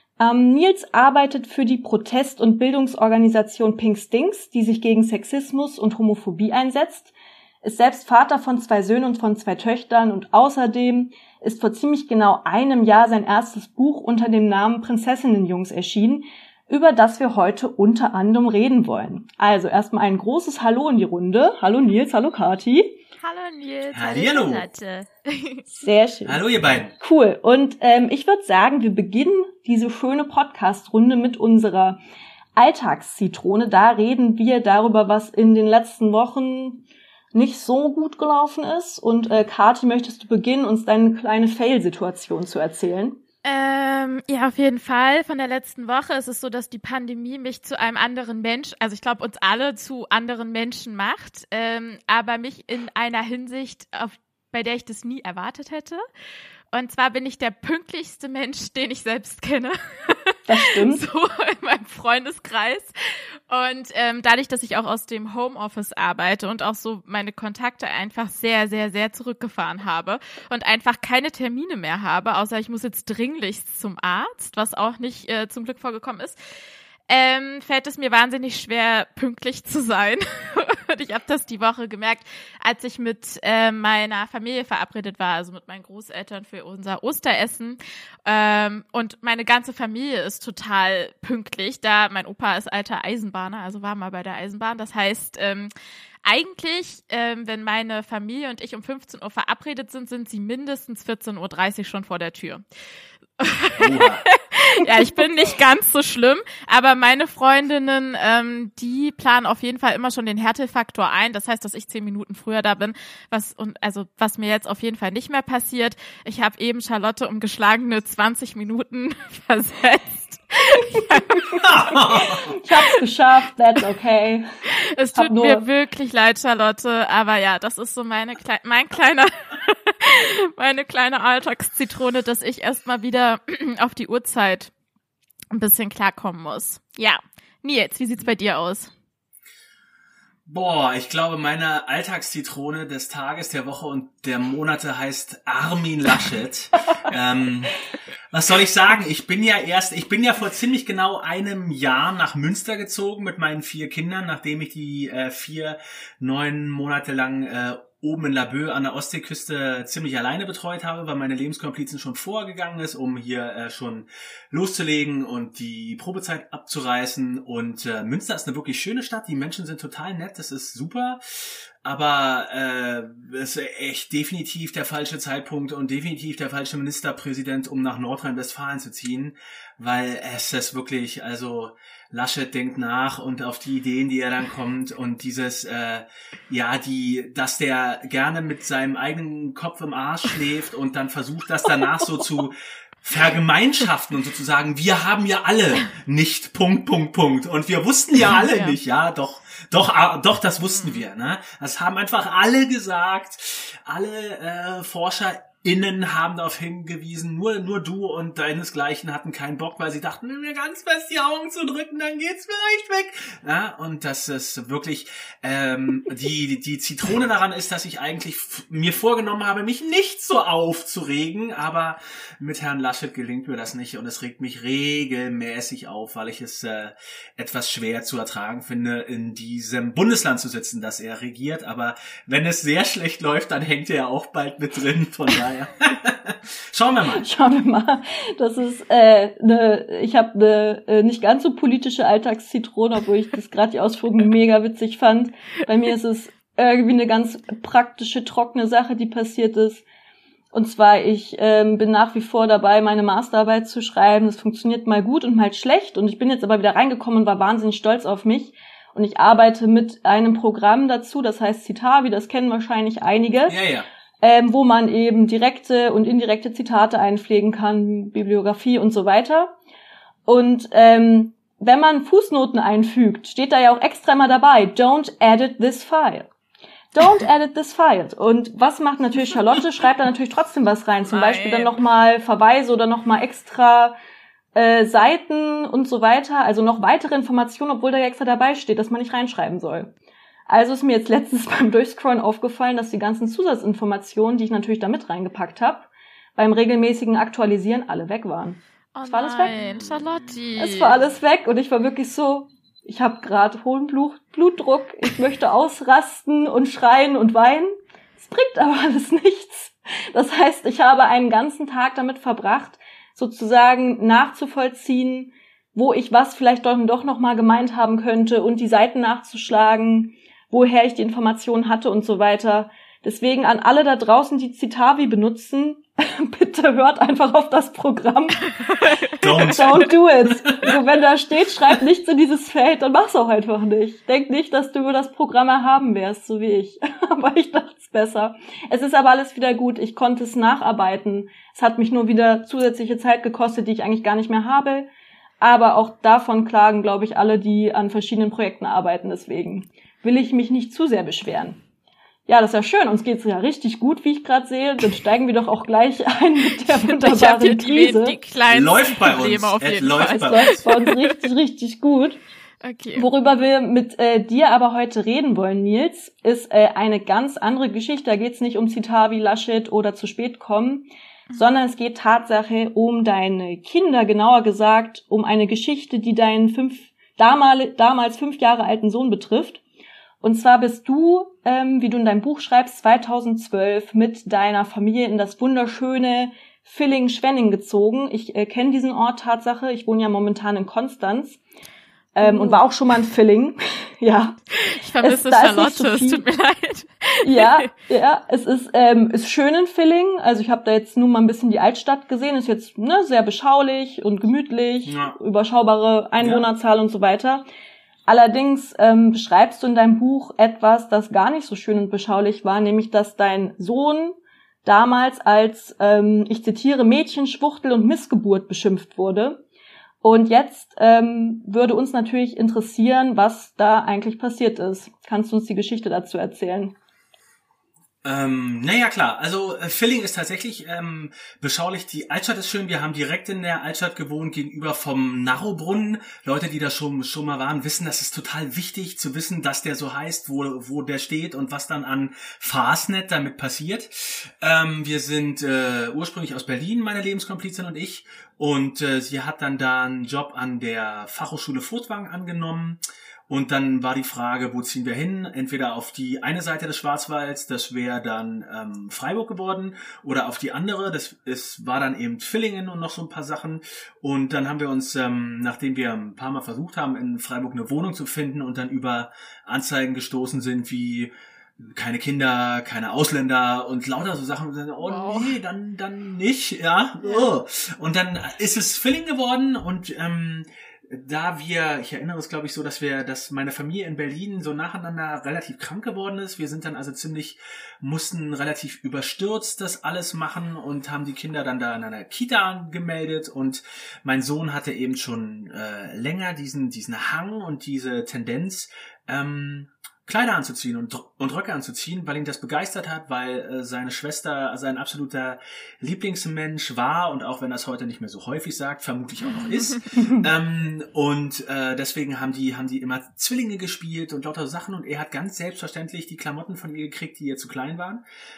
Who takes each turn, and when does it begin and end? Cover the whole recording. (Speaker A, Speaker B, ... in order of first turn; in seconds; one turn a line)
Speaker A: 0.2-23.0
Speaker B: 23.2-25.6
Speaker C: 23.9-24.7
Speaker A: 25.7-26.4
Speaker C: 26.3-27.0
Speaker A: 27.0-32.0
Speaker A: 32.6-43.2
Speaker B: 43.4-56.0
Speaker B: 56.7-62.9
Speaker A: 60.5-61.0
Speaker B: 63.5-76.4
Speaker B: 77.1-95.7
Speaker B: 96.2-102.6
Speaker B: 103.4-122.8
Speaker C: 103.8-104.2
Speaker A: 104.8-105.1
Speaker C: 121.6-122.5
Speaker A: 122.2-124.5
Speaker B: 124.7-134.7
Speaker A: 125.2-125.6
Speaker B: 135.5-138.9
Speaker C: 140.5-237.3
Speaker B: 198.3-198.8
Speaker A: 237.1-249.8
Speaker A: 250.5-263.6
Speaker C: 263.5-263.9
Speaker A: 264.2-269.5
Speaker A: 270.3-276.3
Speaker A: 276.9-283.9
Speaker B: 281.1-281.8
Speaker A: 284.6-289.9
Speaker A: 290.5-299.5
Speaker B: 298.9-300.9
Speaker A: 300.6-328.5
Speaker C: 329.2-329.9
Speaker A: 329.4-344.9
Speaker C: 330.4-330.7
Speaker A: 345.4-351.6
Speaker A: 352.3-358.2
Speaker B: 356.8-361.1
Speaker C: 358.5-360.6
Speaker A: 360.1-362.2
Speaker B: 362.6-363.1
Speaker A: 362.9-379.6
Speaker A: 380.2-391.4
Speaker B: 392.2-392.6
Speaker A: 392.2-394.4
Speaker B: 394.6-397.7
Speaker A: 395.0-396.2
Speaker A: 397.2-407.4
Speaker C: 404.9-405.2
Speaker C: 406.2-406.5
Speaker A: 408.1-419.4
Speaker A: 420.0-426.7
Speaker C: 428.0-518.0
Speaker B: 474.8-475.4
Speaker B: 477.0-477.3